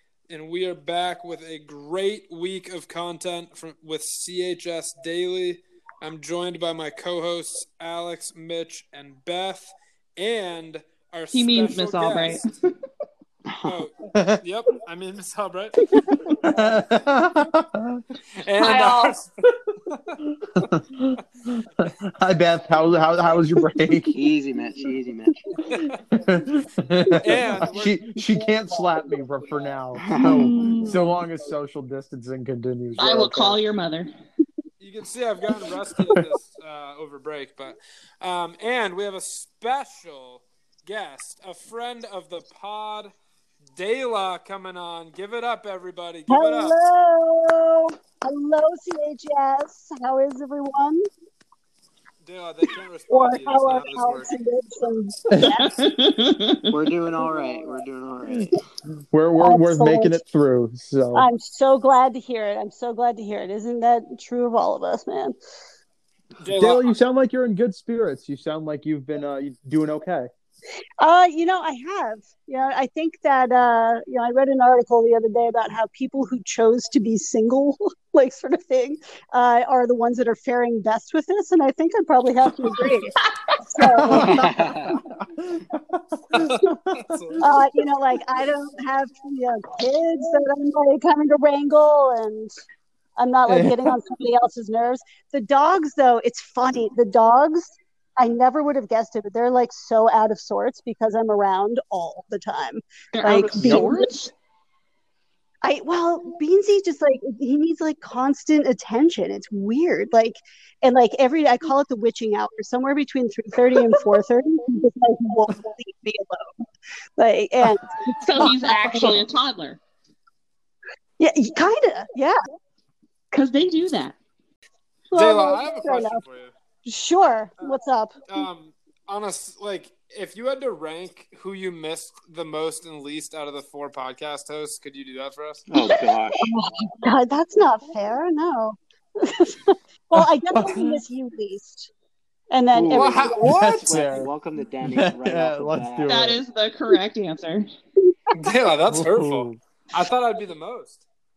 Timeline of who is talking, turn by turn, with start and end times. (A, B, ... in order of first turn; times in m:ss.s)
0:00.3-0:12.5 A
0:11.3-0:12.5 B
0:13.6-0:15.8 A
0:14.1-0:14.4 C
0:16.4-0:18.0 C
0:18.4-0:19.3 A
0:18.6-0:19.2 B
0:19.9-0:20.2 A
0:20.5-0:24.2 C
0:24.1-0:25.4 D
0:25.7-0:26.0 A
0:26.1-0:33.6 C
0:27.2-0:28.0 A
0:30.0-0:30.4 D
0:30.2-0:31.0 B
0:33.0-0:34.1 B
0:34.8-0:43.1 A
0:43.8-0:46.7 A
0:46.3-0:51.1 E
0:52.2-0:54.3 A
0:53.1-0:55.8 E
0:55.3-0:55.6 C
0:55.4-0:56.7 B
0:56.7-0:58.6 D
0:59.1-1:01.3 C
0:59.4-1:00.2 E
1:01.1-1:05.3 E
1:06.4-1:07.0 A
1:06.5-1:10.3 C
1:11.0-1:25.0 E
1:23.2-1:23.6 B
1:23.8-1:27.0 C
1:24.1-1:25.0 D
1:26.3-1:27.5 A
1:27.4-1:32.6 E
1:33.2-1:44.1 E
1:33.5-1:34.0 C
1:43.1-1:44.3 B
1:43.5-1:43.9 C
1:45.6-1:56.5 E
1:57.2-1:59.2 E
1:58.1-1:59.8 B
2:01.2-2:02.4 E
2:03.3-2:04.2 B
2:05.1-2:06.2 E
2:05.1-2:06.5 A
2:06.8-2:08.4 E
2:08.3-2:15.6 A
2:15.7-2:16.5 D
2:15.9-2:21.9 E
2:20.2-2:21.0 C
2:22.5-2:23.4 E
2:22.7-2:26.2 D
2:22.9-2:23.9 A
2:23.3-2:24.3 C
2:24.8-2:26.4 C
2:26.0-2:27.7 B
2:28.3-2:31.0 A
2:28.9-2:29.6 C